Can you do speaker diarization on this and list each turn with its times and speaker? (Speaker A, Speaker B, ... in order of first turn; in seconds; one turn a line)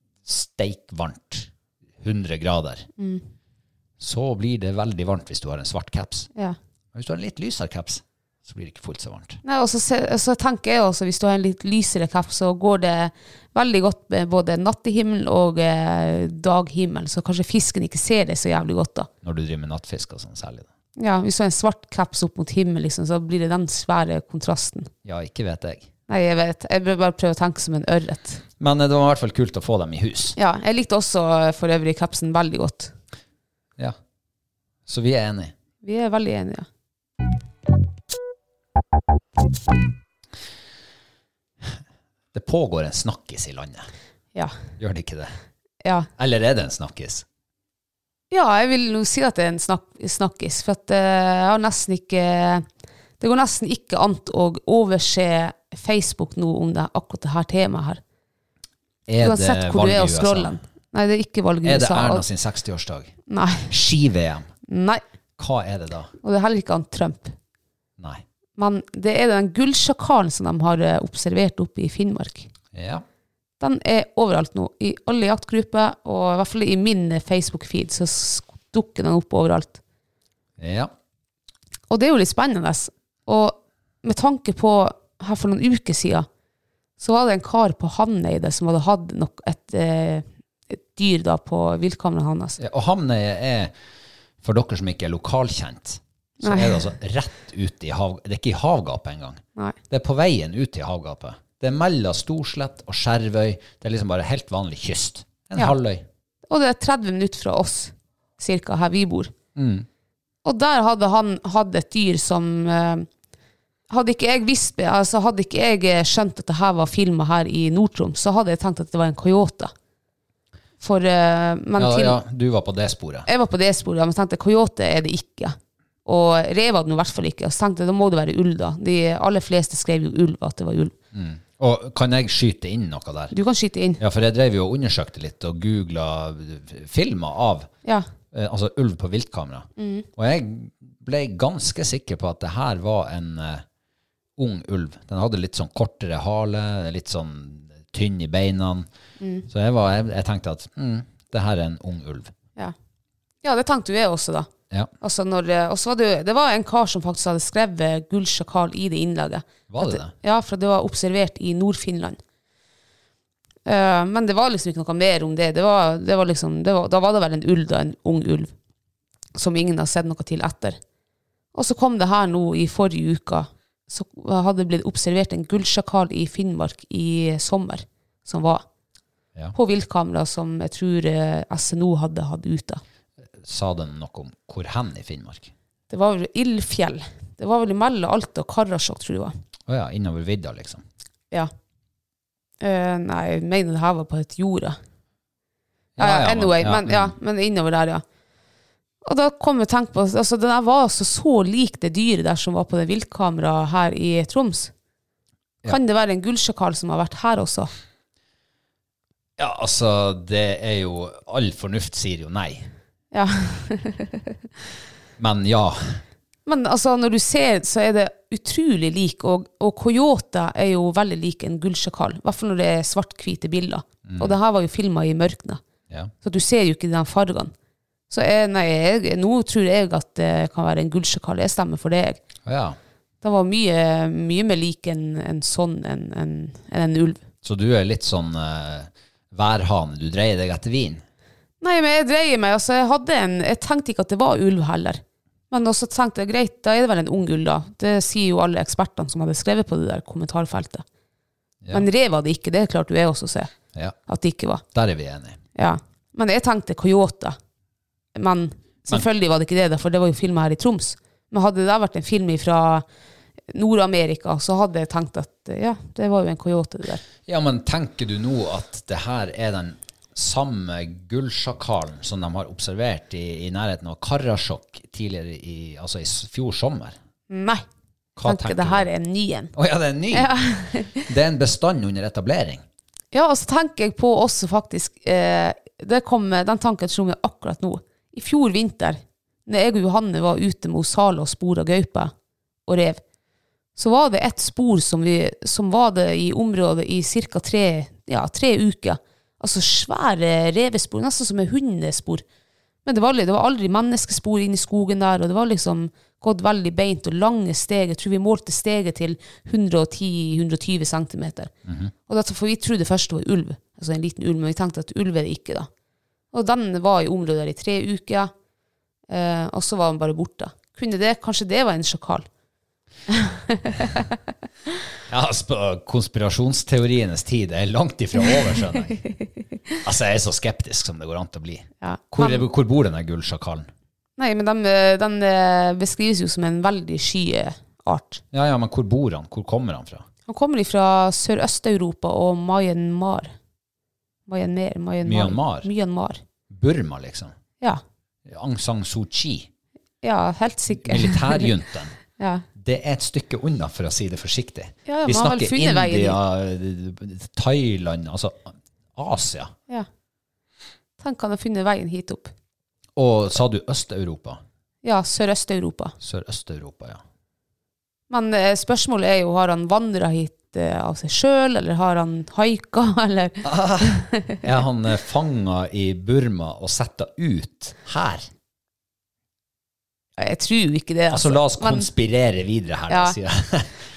Speaker A: 0.2-2.9
Speaker B: 3.0-3.2
Speaker A: 4.0-6.3
Speaker A: 6.9-9.4
Speaker B: 9.4-19.1
Speaker A: 19.2-20.7
Speaker B: 21.0-24.9
Speaker A: 25.1-25.9
Speaker B: 26.1-28.4
Speaker A: 28.6-30.4
Speaker B: 30.4-32.9
Speaker A: 34.9-35.5
Speaker B: 35.8-36.7
Speaker A: 42.3-43.9
Speaker A: 44.8-45.4
Speaker A: 46.2-47.2
Speaker B: 48.3-52.7
Speaker B: 53.2-58.0
Speaker A: 59.1-60.6
Speaker B: 59.2-62.2
Speaker A: 61.6-63.2
Speaker B: 63.3-63.7
Speaker A: 63.7-64.5
Speaker B: 64.7-65.0
Speaker A: 65.4-66.1
Speaker B: 66.2-67.3
Speaker A: 68.0-68.2
Speaker B: 68.6-72.5
Speaker A: 72.7-73.0
Speaker B: 73.6-79.8
Speaker A: 80.6-80.9
Speaker B: 81.9-86.3
Speaker B: 87.0-92.6
Speaker A: 92.6-93.7
Speaker A: 94.4-106.1
Speaker B: 96.4-96.8
Speaker B: 106.5-109.3
Speaker A: 109.5-109.9
Speaker B: 110.5-113.1
Speaker B: 113.9-119.7
Speaker B: 120.8-122.2
Speaker A: 121.8-123.3
Speaker B: 123.3-130.9
Speaker A: 131.1-133.3
Speaker B: 133.3-134.0
Speaker A: 134.0-137.7
Speaker A: 138.3-143.7
Speaker B: 139.8-140.1
Speaker A: 144.4-148.9
Speaker B: 149.2-149.5
Speaker A: 149.5-152.3
Speaker B: 153.4-154.5
Speaker B: 155.0-162.2
Speaker A: 159.7-160.1
Speaker B: 163.7-168.5
Speaker B: 169.4-170.8
Speaker B: 171.5-178.6
Speaker B: 179.5-182.8
Speaker A: 183.4-185.5
Speaker B: 185.9-189.3
Speaker A: 189.7-190.8
Speaker B: 192.6-194.8
Speaker A: 196.0-197.2
Speaker B: 196.0-198.0
Speaker B: 199.0-204.7
Speaker B: 205.7-207.7
Speaker A: 209.4-212.7
Speaker B: 213.1-214.2
Speaker A: 215.2-216.0
Speaker B: 216.5-225.6
Speaker A: 224.1-224.4
Speaker B: 226.2-227.5
Speaker B: 228.1-232.2
Speaker A: 232.4-232.8
Speaker B: 233.2-237.2
Speaker A: 237.4-241.0
Speaker B: 241.6-250.8
Speaker B: 251.7-253.5
Speaker B: 254.1-254.6
Speaker A: 254.7-255.4
Speaker B: 255.6-257.4
Speaker B: 258.2-262.9
Speaker B: 263.5-267.0
Speaker A: 267.3-277.0
Speaker B: 277.3-277.6
Speaker A: 278.2-278.9
Speaker B: 278.2-279.5
Speaker A: 279.5-280.4
Speaker B: 280.1-281.1
Speaker A: 281.0-282.6
Speaker B: 283.1-292.1
Speaker B: 292.7-293.0
Speaker B: 293.8-302.2
Speaker B: 302.9-311.5
Speaker A: 311.7-311.9
Speaker B: 312.1-315.7
Speaker B: 316.3-318.3
Speaker B: 319.1-322.3
Speaker B: 323.1-324.1
Speaker A: 325.1-329.0
Speaker A: 329.8-333.7
Speaker B: 331.8-332.4
Speaker B: 334.2-338.2
Speaker A: 338.3-340.1
Speaker B: 340.3-343.3
Speaker B: 344.3-346.2
Speaker A: 345.0-345.7
Speaker A: 346.5-347.3
Speaker A: 348.3-349.5
Speaker B: 350.0-351.5
Speaker A: 350.8-351.9
Speaker B: 352.2-352.5
Speaker A: 352.6-359.5
Speaker B: 354.9-356.2
Speaker B: 361.0-362.3
Speaker A: 363.0-364.4
Speaker B: 364.8-365.9
Speaker A: 366.0-367.0
Speaker B: 368.1-374.4
Speaker A: 373.4-378.3
Speaker B: 380.2-381.9
Speaker A: 381.1-383.7
Speaker B: 382.9-383.2